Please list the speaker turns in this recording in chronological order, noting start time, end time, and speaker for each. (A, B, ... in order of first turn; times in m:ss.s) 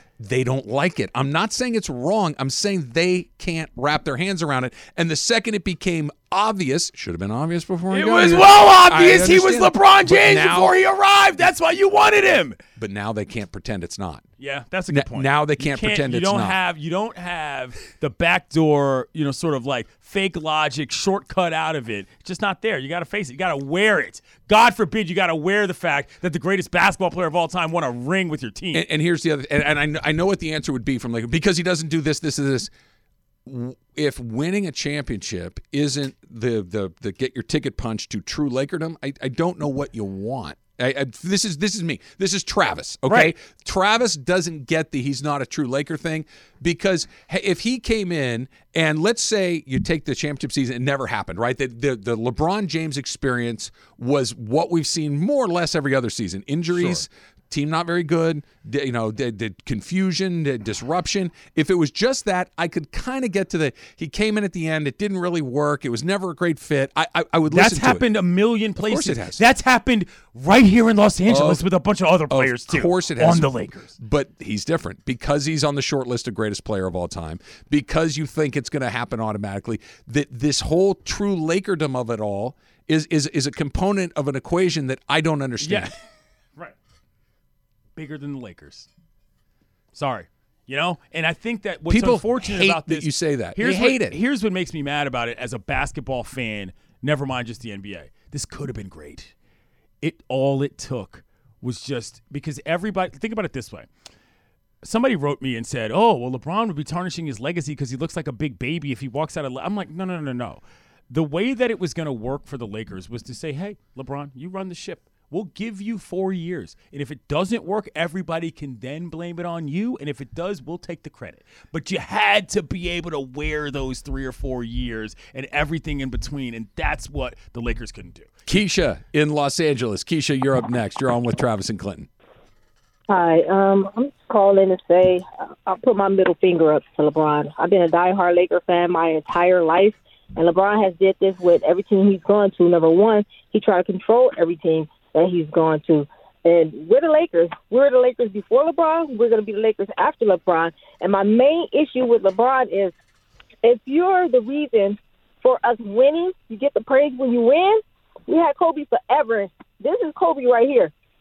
0:00.2-0:10.8 A
0:07.9-0:12.6 B
0:12.8-0:14.2 A
0:14.4-0:28.8 B
0:14.9-0:16.6 A
0:28.7-0:32.7 A
0:33.5-1:08.0 A
0:43.1-0:43.3 B
0:56.7-0:57.0 B
1:07.5-1:13.9 B
1:08.8-1:09.4 A
1:11.3-1:11.7 A
1:12.3-1:25.9 A
1:25.6-1:25.9 B
1:28.0-1:28.9 B
1:29.9-1:39.3 B
1:31.9-1:34.2 A
1:40.0-1:43.9 B
1:44.8-2:08.3 B
2:08.5-2:12.1 A
2:13.1-2:33.0 C
2:33.6-2:40.9 C